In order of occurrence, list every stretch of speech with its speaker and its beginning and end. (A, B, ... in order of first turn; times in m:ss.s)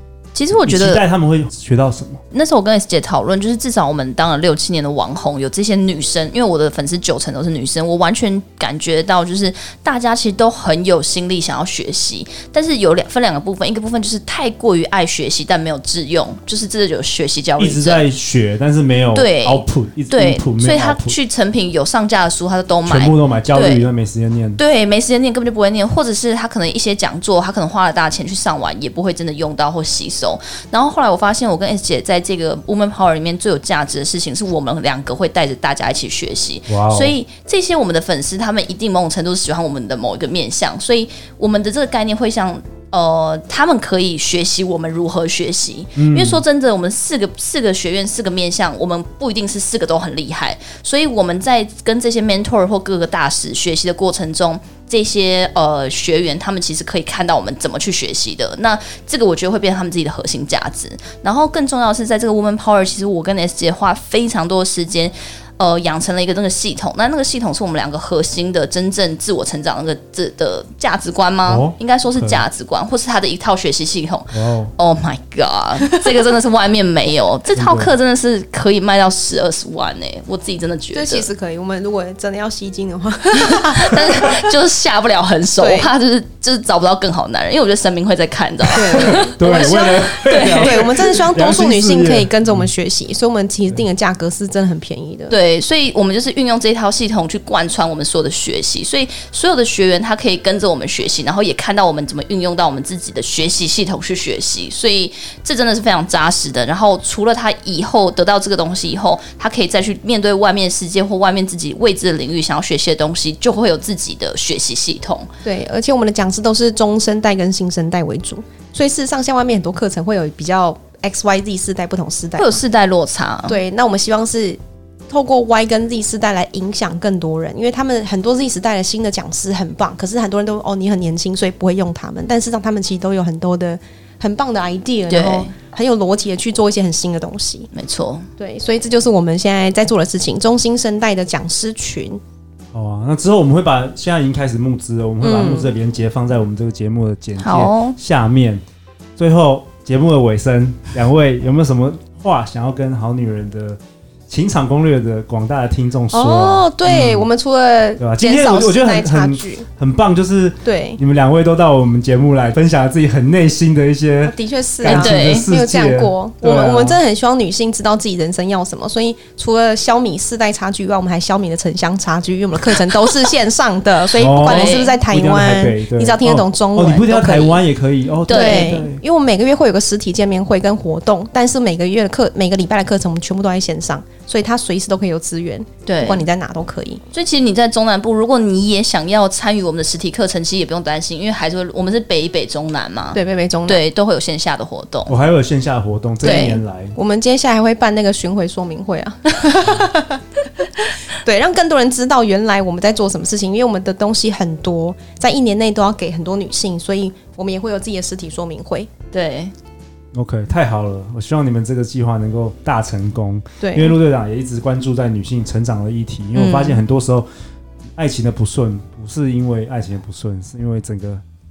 0:00.3-0:01.0 A
0:00.5-0:02.2 B
0:02.3-0:18.0 A
0:17.6-0:21.2 B
0:19.1-0:23.9 A
0:22.9-0:24.6 B
0:24.6-1:21.3 A
0:36.7-0:37.1 B
0:46.0-0:46.4 B
1:11.4-1:12.4 B
1:14.3-1:14.7 B
1:17.5-1:17.9 B
1:20.9-1:24.5 C
1:23.3-1:30.8 A
1:25.6-1:25.9 C
1:28.7-1:35.3 C
1:29.0-1:32.7 B
1:35.3-1:55.3 A
1:55.4-2:02.6 C
2:02.4-2:03.6 A
2:03.5-2:04.6 C
2:05.1-2:17.7 C
2:15.1-2:15.5 A
2:17.7-2:18.2 A
2:18.4-2:22.2 C
2:22.7-2:28.6 B
2:25.2-2:25.7 C
2:27.4-2:28.0 A
2:29.2-2:37.3 B
2:36.1-2:39.7 C
2:38.0-2:47.0 B
2:40.6-2:41.0 C
2:44.2-2:57.6 C
2:44.8-2:45.5 A
2:54.2-2:59.0 B
2:54.4-2:55.0 A
2:58.3-2:58.8 A
2:58.3-3:07.0 C
3:05.9-3:06.3 A
3:07.1-3:15.1 A
3:13.1-3:13.8 C
3:15.0-3:16.9 B
3:16.2-3:20.2 C
3:16.2-3:16.6 A
3:20.8-3:28.9 C
3:29.1-3:29.5 A
3:30.1-3:37.3 B
3:33.6-3:34.0 C
3:36.3-3:36.8 A
3:38.0-3:41.2 B